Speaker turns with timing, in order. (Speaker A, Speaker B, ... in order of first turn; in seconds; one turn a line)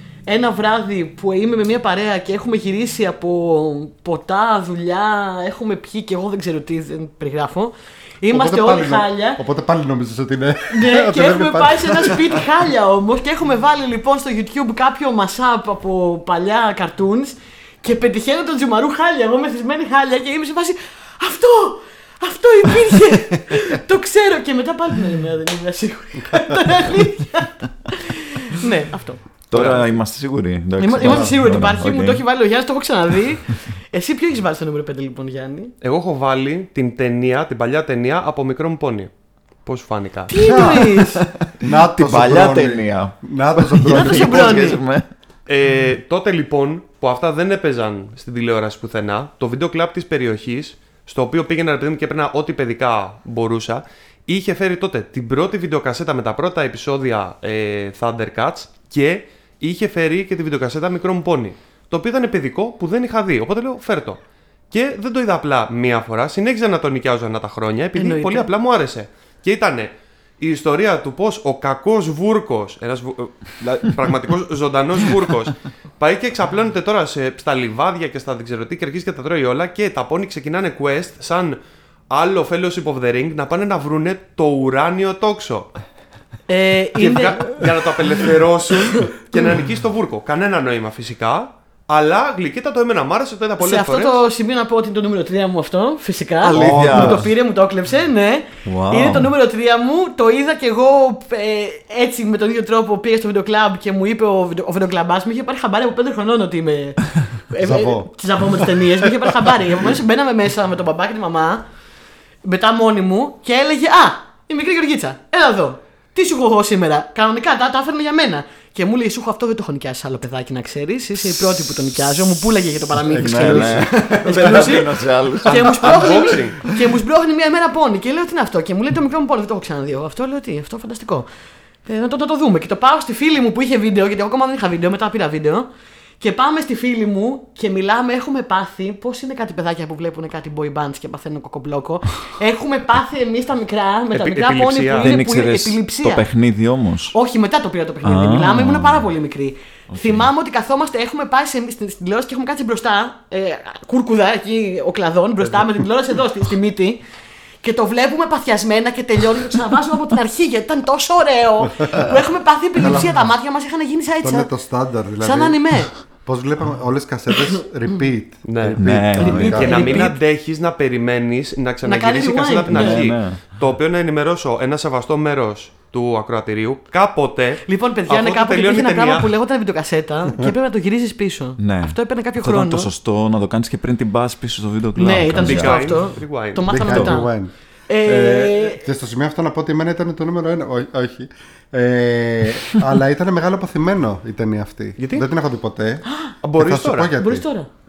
Speaker A: 0.3-9.4
Speaker B: 8.3-12.5
Speaker A: 10.7-29.2
Speaker C: 29.5-32.2
Speaker D: 29.5-29.9
Speaker A: 30.8-35.7
Speaker B: 31.0-31.3
Speaker D: 35.8-39.1
Speaker D: 39.6-40.3
Speaker A: 40.3-41.2
Speaker B: 40.4-40.9
Speaker C: 40.6-45.1
Speaker B: 41.6-44.7
Speaker A: 43.9-44.8
Speaker D: 45.5-81.6
Speaker A: 68.0-68.5
Speaker D: 82.1-85.7
Speaker A: 86.5-87.7
Speaker D: 87.0-94.2
Speaker A: 93.6-111.6
Speaker C: 96.5-97.3
Speaker B: 96.5-97.3
Speaker C: 98.7-99.3
Speaker B: 107.6-108.8
Speaker A: 112.4-131.3
Speaker C: 121.2-126.3
Speaker B: 123.1-124.7
Speaker D: 125.5-126.6
Speaker A: 131.8-135.7
Speaker A: 136.2-146.3
Speaker D: 144.1-145.1
Speaker C: 145.0-147.2
Speaker A: 147.1-157.0
Speaker C: 148.0-149.1
Speaker C: 149.9-150.3
Speaker A: 157.6-164.5
Speaker B: 162.8-163.3
Speaker B: 164.2-169.9
Speaker A: 165.2-165.9
Speaker D: 168.4-179.3
Speaker C: 168.8-170.0
Speaker A: 169.2-170.2
Speaker A: 171.8-173.1
Speaker C: 172.7-173.4
Speaker A: 177.7-182.9
Speaker C: 181.6-186.1
Speaker A: 185.0-188.8
Speaker D: 185.4-186.7
Speaker B: 186.7-187.5
Speaker C: 186.8-187.2
Speaker B: 188.1-196.1
Speaker D: 195.0-195.3
Speaker A: 196.1-196.3
Speaker D: 196.4-197.1
Speaker B: 196.6-197.5
Speaker A: 197.2-197.7